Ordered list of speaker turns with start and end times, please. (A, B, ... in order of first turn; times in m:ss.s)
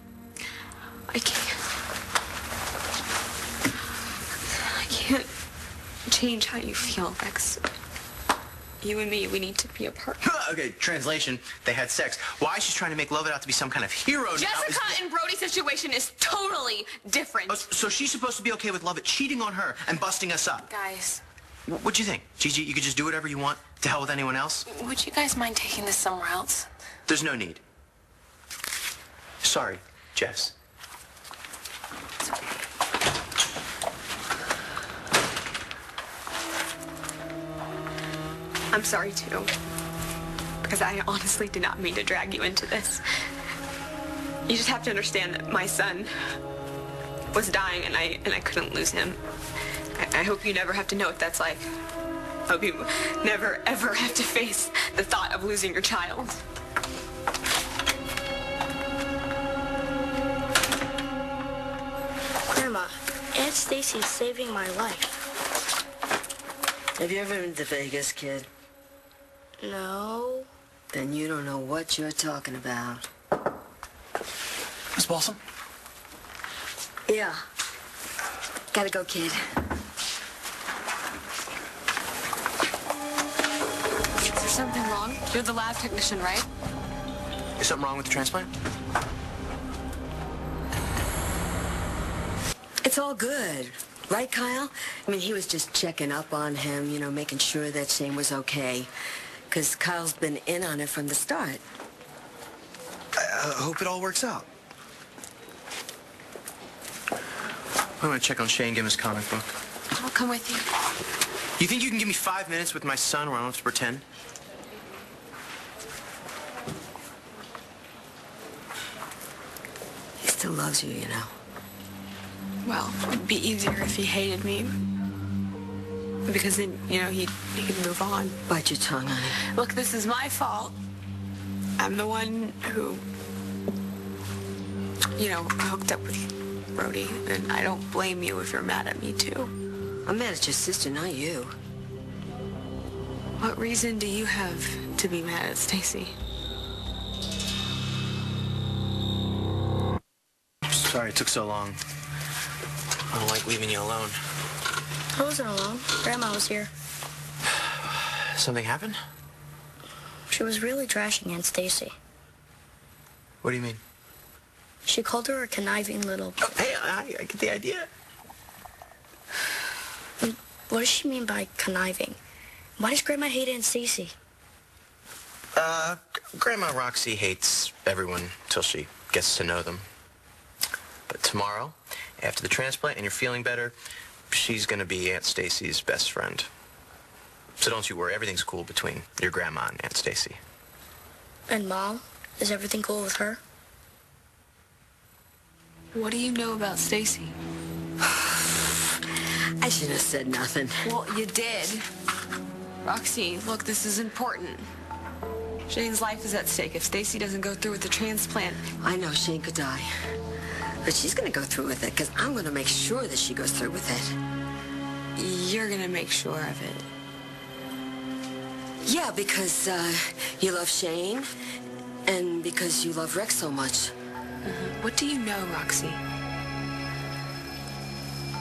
0:01.1-0:01.6 A
0:04.5-0:05.3 A
0:06.1-0:07.6 A
0:08.8-0:10.2 A
0:10.2-0:15.0 B
0:14.3-0:17.7 A
0:17.5-0:20.7 B
0:20.7-0:21.2 C
0:20.7-0:21.2 A
0:21.7-0:24.7 B
0:24.7-0:26.7 C
0:27.1-0:27.6 B
0:29.4-0:30.5 B
0:38.7-0:39.5 A
0:40.6-0:43.0 A
0:44.5-0:46.1 A
0:47.3-0:49.2 A
0:50.0-0:51.7 A
0:52.5-0:56.4 A
1:02.5-1:05.2 D
1:07.0-1:08.5 E
1:09.6-1:10.5 D
1:10.9-1:13.1 E
1:15.0-1:15.4 B
1:17.1-1:17.4 E
1:18.7-1:19.4 E
1:24.3-1:26.5 A
1:27.6-1:28.5 B
1:32.8-1:38.9 E
1:39.5-1:41.6 E
1:43.2-1:44.5 B
1:48.0-1:49.5 B
1:49.9-1:50.7 A
1:51.6-1:54.0 B
2:00.2-2:01.3 E
2:02.6-2:04.8 A
2:06.3-2:08.4 A
2:08.5-2:09.4 E
2:09.5-2:10.8 A
2:11.8-2:13.0 A
2:15.2-2:19.5 A
2:20.1-2:21.6 E
2:23.4-2:26.2 A
2:30.7-2:31.8 B
2:33.1-2:34.2 B
2:35.2-2:36.7 D
2:37.8-2:39.0 B
2:40.3-2:42.0 D
2:43.4-2:43.8 B
2:44.9-2:46.5 D
2:46.4-2:47.9 B
2:50.2-2:52.2 D
2:52.8-2:54.2 D
2:55.6-2:59.8 B
3:01.1-3:03.7 B
3:04.3-3:06.5 B
3:07.6-3:10.4 B
3:11.5-3:13.4 D
3:15.9-3:17.4 A
3:18.0-3:18.3 E
3:19.6-3:20.9 E
3:20.8-3:21.9 A
3:22.8-3:24.7 A
3:25.7-3:28.6 A
3:28.8-3:29.9 E
3:30.8-3:34.2 E
3:35.2-3:36.8 A
3:38.8-3:41.3 E
3:42.1-3:43.9 E
3:44.4-3:46.0 A